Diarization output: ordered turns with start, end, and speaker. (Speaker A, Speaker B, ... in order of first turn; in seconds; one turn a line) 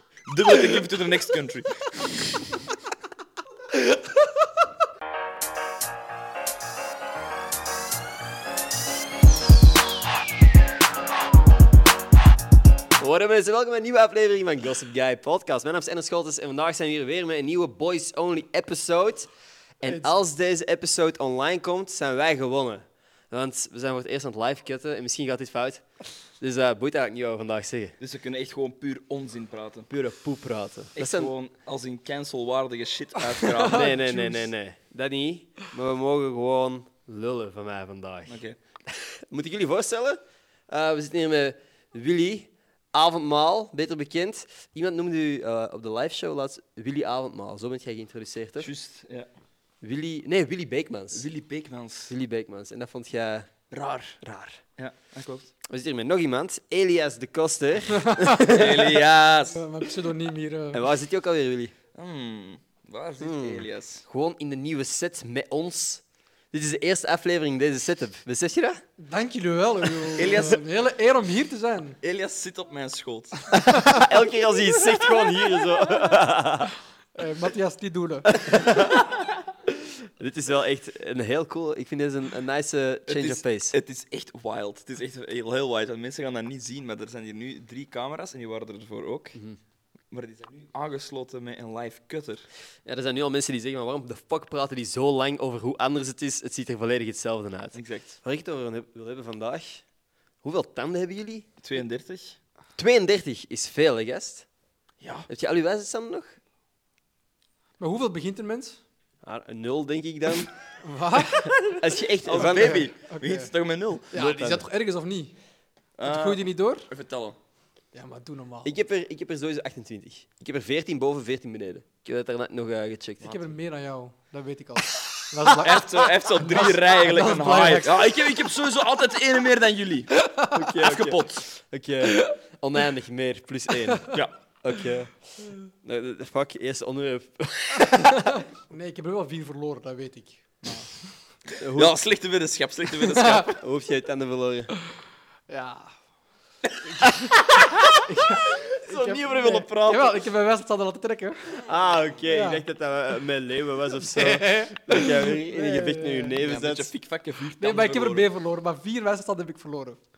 Speaker A: 0.3-2.3
Speaker B: 13.0-19.3
Speaker B: 19.8-25.9
Speaker B: 26.4-28.0
Speaker A: 28.0-29.9
Speaker B: 29.9-31.3
Speaker A: 31.0-34.0
Speaker C: 33.3-34.5
Speaker B: 33.7-38.4
Speaker A: 38.3-38.6
Speaker B: 39.0-48.7
Speaker A: 48.6-49.3
Speaker B: 49.8-51.3
Speaker A: 51.1-52.1
Speaker B: 52.1-53.5
Speaker A: 53.7-54.2
Speaker B: 54.2-54.6
Speaker A: 54.8-55.5
Speaker B: 55.7-59.0
Speaker C: 58.0-58.4
Speaker A: 58.5-59.6
Speaker C: 59.5-60.9
Speaker B: 60.7-61.7
Speaker A: 61.9-64.0
Speaker B: 63.2-68.8
Speaker C: 69.0-72.0
Speaker A: 70.1-70.6
Speaker A: 72.0-73.4
Speaker C: 73.5-74.0
Speaker B: 73.6-76.7
Speaker C: 77.2-78.5
Speaker B: 78.3-83.8
Speaker A: 83.1-89.4
Speaker A: 90.1-92.5
Speaker B: 92.9-99.8
Speaker A: 97.7-98.2
Speaker B: 100.4-101.5
Speaker A: 101.6-102.4
Speaker B: 102.8-104.5
Speaker A: 105.0-105.3
Speaker B: 105.3-106.3
Speaker C: 107.8-108.8
Speaker B: 109.2-110.5
Speaker C: 110.8-111.6
Speaker B: 111.7-112.9
Speaker A: 112.2-114.1
Speaker C: 112.3-113.5
Speaker C: 114.1-115.4
Speaker B: 114.1-114.7
Speaker A: 116.0-117.4
Speaker C: 116.0-116.9
Speaker C: 117.9-118.8
Speaker B: 118.6-123.5
Speaker C: 123.2-128.0
Speaker A: 125.4-130.1
Speaker C: 130.2-130.6
Speaker B: 130.5-138.3
Speaker A: 130.8-131.5
Speaker C: 137.8-141.1
Speaker B: 141.6-142.0
Speaker A: 141.8-143.5
Speaker C: 143.0-143.5
Speaker B: 143.5-144.7
Speaker C: 145.5-145.9
Speaker A: 146.7-147.0
Speaker A: 147.6-150.2
Speaker C: 148.0-151.7
Speaker B: 151.6-156.9
Speaker C: 152.3-152.7
Speaker C: 153.9-156.4
Speaker A: 156.4-158.3
Speaker C: 157.6-160.0